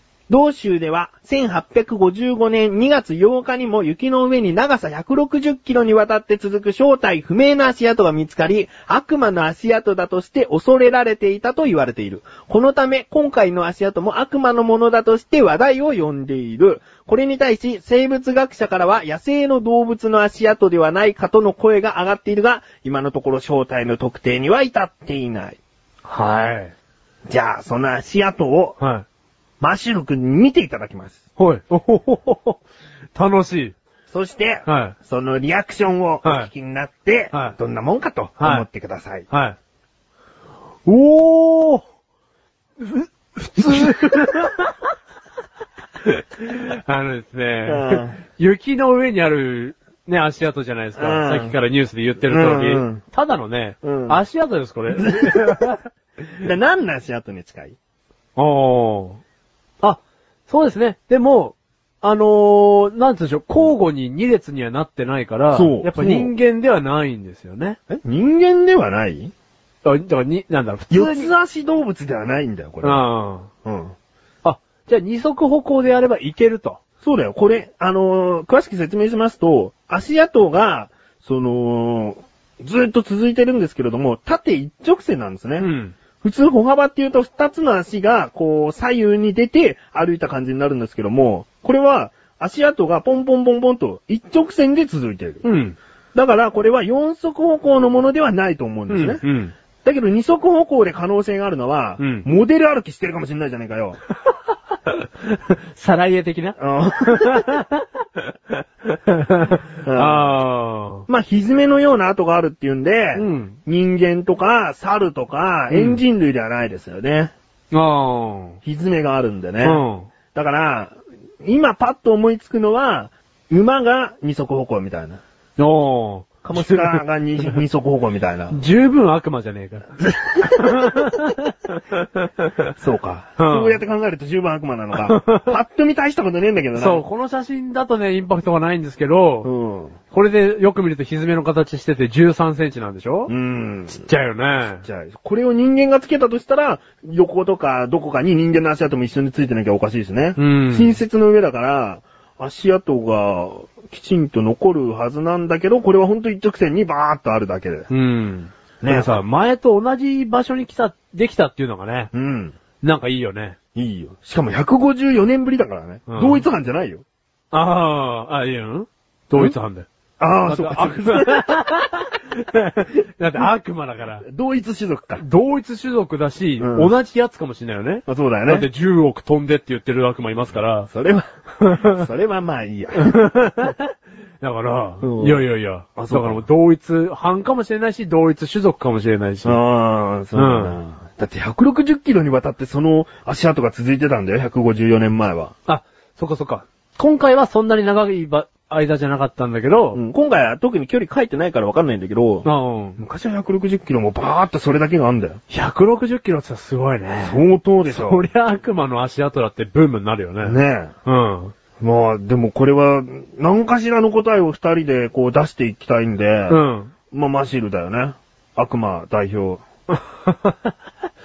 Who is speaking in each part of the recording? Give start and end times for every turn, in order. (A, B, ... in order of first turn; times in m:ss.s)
0:00.3-0:25.6 A
0:26.0-0:26.7 B
0:27.3-0:28.8 A
0:28.8-0:29.0 B
0:29.6-0:31.2 A
0:31.4-0:32.6 B
0:33.1-0:33.7 B
0:34.1-0:39.3 A
0:34.6-0:34.9 B
0:36.2-0:36.5 B
0:38.4-0:38.6 B
0:39.3-0:39.6 B
0:40.8-0:41.8 B
0:42.8-0:44.8 B
0:43.7-0:44.1 A
0:46.0-0:55.8 B
0:47.6-0:48.2 A
0:51.0-0:51.6 A
0:52.3-0:53.0 A
0:53.8-0:54.2 A
0:54.9-0:55.7 A
0:56.4-0:57.8 A
0:58.4-0:59.2 B
0:59.8-1:07.8 B
1:05.5-1:06.3 A
1:07.9-1:09.3 A
1:09.8-1:11.3 B
1:10.9-1:13.0 A
1:12.8-1:13.5 B
1:13.6-1:13.9 A
1:14.4-1:16.8 B
1:17.0-1:25.7 A
1:25.6-1:25.9 B
1:26.2-1:35.4 A
1:35.4-1:35.8 B
1:36.1-1:39.2 A
1:38.9-1:39.5 B
1:39.8-1:44.0 A
1:42.0-1:42.2 B
1:44.8-1:47.8 B
1:46.6-1:47.5 A
1:48.9-1:51.1 B
1:49.8-1:50.3 A
1:51.1-1:57.3 A
1:53.1-1:53.5 B
1:55.7-1:56.0 B
1:57.7-1:58.6 B
1:58.6-2:05.2 A
1:59.6-2:00.1 B
2:05.6-2:07.0 B
2:06.4-2:08.6 A
2:08.5-2:12.2 B
2:10.1-2:10.6 A
2:12.8-2:17.0 A
2:13.4-2:13.8 B
2:14.9-2:15.6 B
2:16.7-2:19.5 B
2:19.4-2:20.0 A
2:20.1-2:23.3 B
2:23.3-2:24.0 A
2:24.0-2:24.8 B
2:24.8-2:37.9 A
2:30.4-2:31.0 B
2:37.9-2:42.1 B
2:38.8-2:39.2 A
2:42.1-2:42.6 A
2:42.8-2:43.6 B
2:43.7-2:47.0 A
2:46.1-2:46.4 B
2:47.5-2:49.9 B
2:50.2-2:51.7 A
2:50.4-2:54.2 B
2:54.2-2:55.2 A
2:55.2-3:00.9 B
2:56.6-2:56.9 A
2:58.1-2:58.7 A
3:00.9-3:03.2 A
3:01.6-3:01.9 B
3:03.0-3:09.6 B
3:05.0-3:05.4 A
3:06.0-3:06.4 A
3:09.4-3:15.5 A
3:10.3-3:10.8 B
3:15.6-3:20.0 B
3:19.9-3:22.5 A
3:22.4-3:23.0 B
3:23.0-3:25.4 A
3:25.5-3:27.4 B
3:27.2-3:28.2 A
3:27.9-3:31.5 B
3:30.4-3:30.9 A
3:31.8-3:39.6 A
3:36.5-3:36.9 B
3:39.9-3:40.7 B